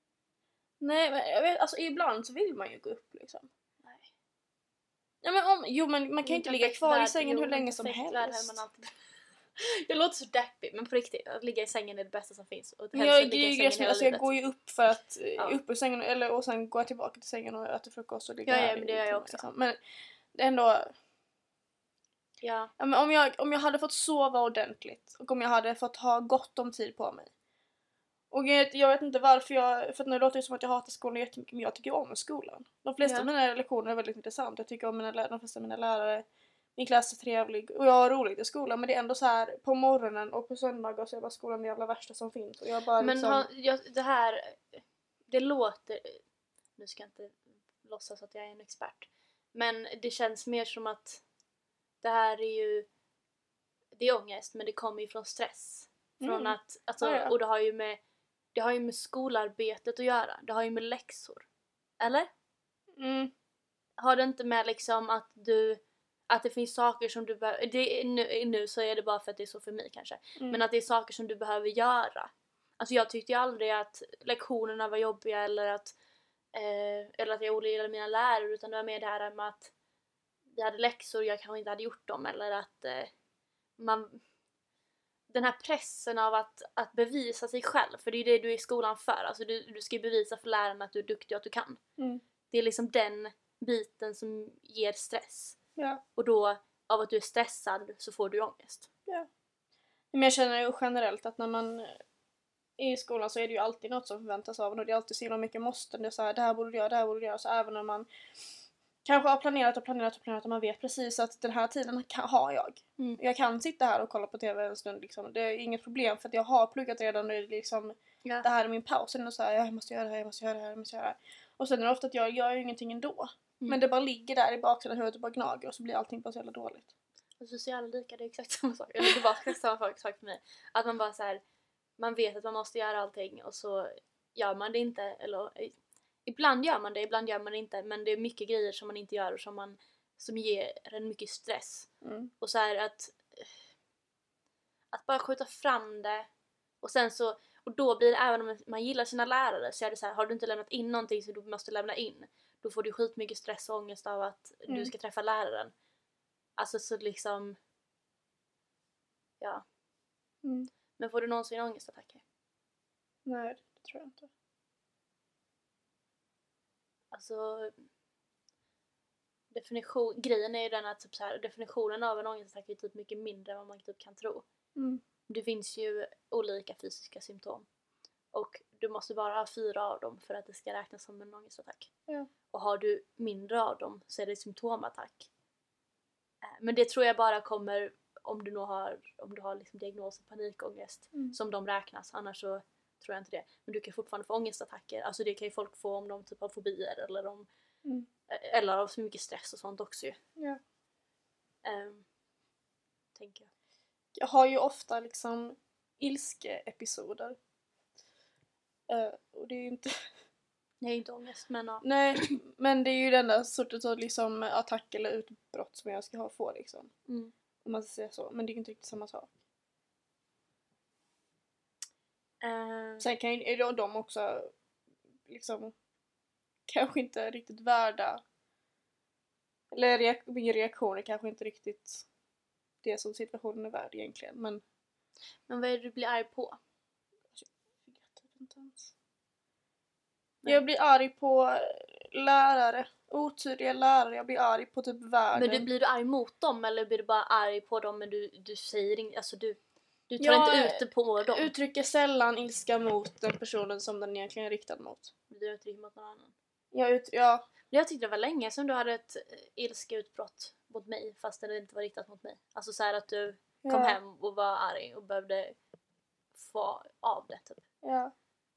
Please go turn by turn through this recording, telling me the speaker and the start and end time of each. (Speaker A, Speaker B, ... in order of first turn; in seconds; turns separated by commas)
Speaker A: 0.8-3.5, Speaker B: 3.8-4.1, Speaker A: 5.2-8.6, Speaker B: 6.2-8.9, Speaker B: 9.6-14.3, Speaker A: 12.9-19.8, Speaker B: 18.5-19.4, Speaker A: 20.3-20.9, Speaker B: 22.4-22.7, Speaker A: 22.8-27.3, Speaker A: 28.3-36.2, Speaker A: 36.8-43.5, Speaker B: 43.0-46.2, Speaker B: 46.8-51.2, Speaker B: 52.0-52.9, Speaker B: 54.0-58.0, Speaker A: 56.2-57.3, Speaker B: 58.5-61.5, Speaker B: 62.0-62.3, Speaker A: 63.0-63.3, Speaker B: 64.0-76.0, Speaker B: 76.5-79.7, Speaker B: 80.5-83.1, Speaker B: 83.8-84.2, Speaker B: 85.3-91.8, Speaker B: 92.5-95.6, Speaker B: 96.2-98.9, Speaker A: 100.1-102.0, Speaker A: 102.8-108.1, Speaker A: 109.0-126.9, Speaker B: 127.4-131.4, Speaker B: 132.0-141.9, Speaker A: 142.0-142.3, Speaker B: 142.4-143.5, Speaker B: 144.9-146.3, Speaker B: 146.8-155.7, Speaker B: 156.6-157.6, Speaker A: 160.4-160.7, Speaker B: 161.0-162.2, Speaker A: 163.3-164.3, Speaker B: 167.1-167.7, Speaker B: 169.5-174.5, Speaker A: 174.8-175.0, Speaker B: 175.3-177.7, Speaker B: 178.3-181.9, Speaker B: 182.5-185.3, Speaker B: 186.4-197.5, Speaker B: 198.3-200.2, Speaker B: 201.6-202.1, Speaker B: 203.2-203.5, Speaker A: 204.2-207.4, Speaker A: 208.9-210.1, Speaker B: 210.8-212.4, Speaker A: 211.8-216.9, Speaker B: 217.1-217.3, Speaker A: 217.6-219.3, Speaker B: 222.4-223.1, Speaker A: 223.0-224.5, Speaker A: 225.3-225.8, Speaker A: 226.7-228.2, Speaker A: 229.7-232.1, Speaker A: 232.8-234.6, Speaker B: 235.5-236.6, Speaker A: 237.3-238.9, Speaker A: 240.5-245.7, Speaker B: 245.3-249.6, Speaker B: 250.1-251.5, Speaker A: 250.2-255.1, Speaker B: 255.3-256.3, Speaker A: 256.7-257.5, Speaker B: 257.7-265.6, Speaker A: 263.6-264.0, Speaker B: 266.3-267.6, Speaker A: 267.8-268.1